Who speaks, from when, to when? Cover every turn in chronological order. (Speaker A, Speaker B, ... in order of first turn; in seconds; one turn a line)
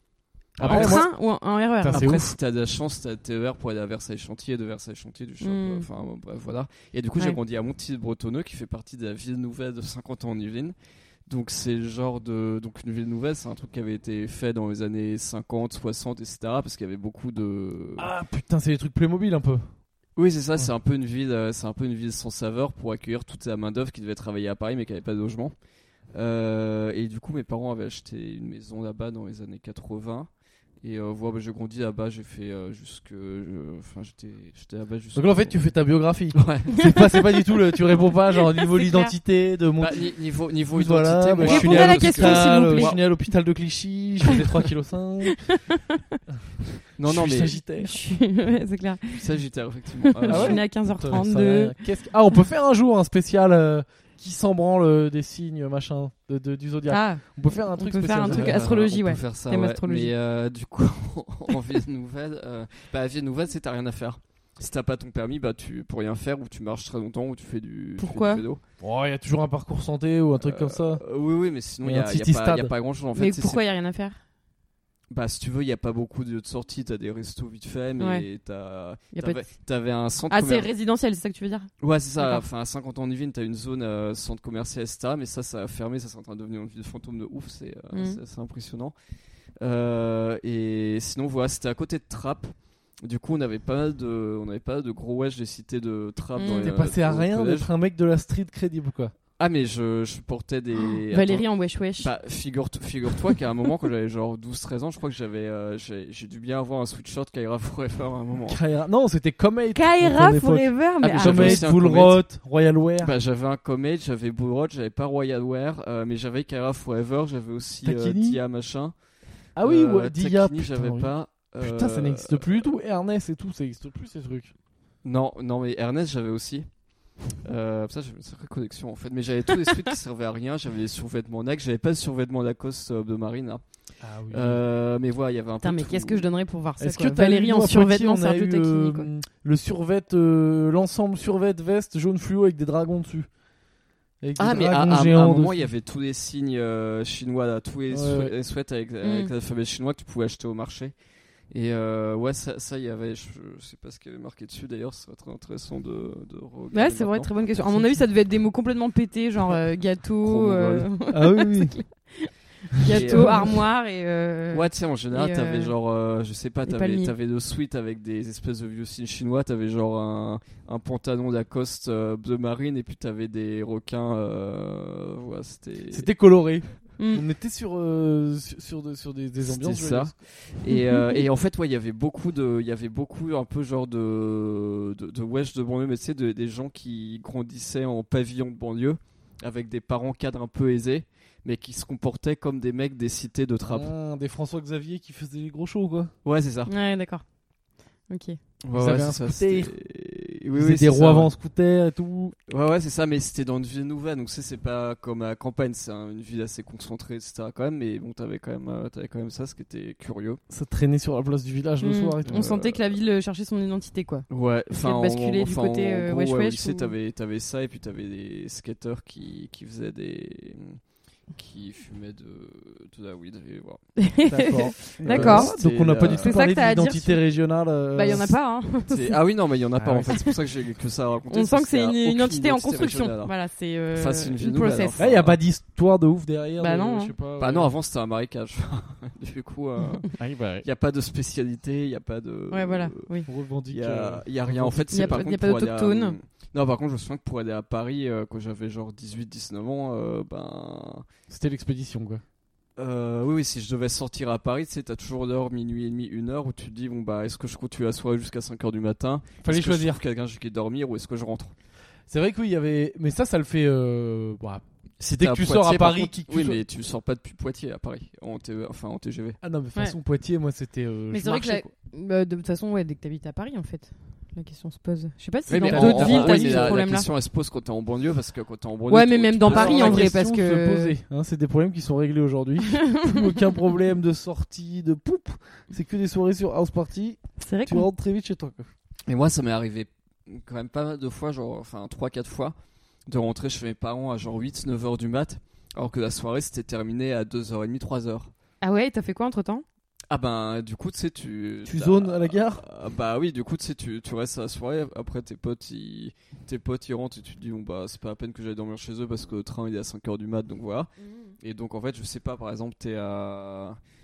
Speaker A: 0.6-1.1
Speaker B: 0.6-1.1
Speaker C: 0.7-2.1
Speaker A: 1.8-2.3
Speaker B: 1.9-10.8
Speaker C: 5.4-5.9
Speaker B: 11.3-18.1
Speaker A: 18.0-19.7
Speaker B: 20.2-25.5
Speaker B: 26.1-30.3
Speaker B: 30.8-35.6
Speaker A: 35.1-40.1
Speaker B: 36.3-36.9
Speaker C: 36.8-37.4
Speaker C: 38.4-39.1
Speaker B: 39.8-43.0
Speaker A: 40.7-45.4
Speaker C: 41.4-43.0
Speaker C: 45.3-46.2
Speaker B: 47.0-47.6
Speaker A: 47.0-48.0
Speaker C: 47.8-49.2
Speaker B: 49.1-50.6
Speaker C: 50.0-51.8
Speaker A: 50.3-58.7
Speaker C: 56.9-57.2
Speaker C: 57.8-60.1
Speaker B: 58.3-68.6
Speaker C: 68.0-68.4
Speaker A: 68.8-71.0
Speaker B: 70.4-73.6
Speaker A: 71.8-72.7
Speaker C: 73.2-74.2
Speaker B: 75.1-80.7
Speaker C: 78.0-78.2
Speaker C: 79.1-79.5
Speaker C: 80.3-82.5
Speaker B: 81.8-89.0
Speaker C: 87.9-88.2
Speaker B: 89.6-97.7
Speaker C: 96.4-96.7
Speaker A: 96.6-99.1
Speaker B: 99.4-108.6
Speaker C: 101.1-102.1
Speaker A: 108.5-113.1
Speaker C: 109.7-111.7
Speaker B: 111.0-112.2
Speaker B: 113.0-118.9
Speaker A: 117.8-118.4
Speaker A: 119.6-124.5
Speaker B: 119.6-122.6
Speaker B: 125.0-126.7
Speaker B: 127.3-133.6
Speaker A: 134.0-134.6
Speaker B: 134.3-136.3
Speaker C: 135.6-139.1
Speaker A: 136.8-143.3
Speaker A: 144.2-145.7
Speaker B: 144.4-150.9
Speaker A: 147.9-148.3
Speaker C: 149.0-149.3
Speaker B: 151.5-157.4
Speaker C: 156.7-165.7
Speaker B: 160.2-160.9
Speaker A: 161.1-161.8
Speaker A: 162.9-163.5
Speaker B: 162.9-163.7
Speaker B: 164.5-176.1
Speaker C: 166.6-167.1
Speaker A: 175.9-180.1
Speaker C: 177.0-177.2
Speaker B: 179.4-193.9
Speaker C: 180.7-181.2
Speaker A: 193.7-196.1
Speaker B: 196.2-196.7
Speaker C: 196.7-197.2
Speaker C: 198.1-198.4
Speaker B: 198.6-201.3
Speaker A: 198.7-199.7
Speaker A: 200.5-202.3
Speaker B: 202.5-210.4
Speaker A: 210.5-212.4
Speaker C: 211.8-216.9
Speaker B: 212.3-213.0
Speaker B: 214.3-220.8
Speaker B: 221.3-223.8
Speaker C: 224.0-225.6
Speaker A: 224.3-228.3
Speaker B: 224.9-226.4
Speaker C: 226.2-227.2
Speaker C: 227.9-229.2
Speaker B: 228.9-233.4
Speaker A: 229.8-230.2
Speaker C: 231.3-235.0
Speaker B: 233.9-235.4
Speaker A: 235.0-237.7
Speaker C: 236.6-237.1
Speaker B: 237.4-243.1
Speaker A: 240.2-240.7
Speaker C: 242.5-243.3
Speaker A: 243.3-245.1
Speaker B: 243.7-251.1
Speaker C: 244.9-246.2
Speaker A: 251.3-252.2
Speaker B: 252.8-261.5
Speaker A: 259.4-260.0
Speaker A: 262.1-266.6
Speaker B: 265.0-269.4
Speaker A: 269.4-271.7
Speaker C: 271.1-277.1
Speaker B: 275.5-280.1
Speaker A: 275.6-276.8
Speaker C: 278.9-280.9
Speaker A: 279.5-288.7
Speaker C: 282.7-283.3
Speaker C: 287.4-287.9
Speaker B: 289.1-292.6
Speaker B: 293.1-298.3
Speaker C: 298.6-299.6
Speaker B: 300.1-313.8
Speaker A: 301.6-302.6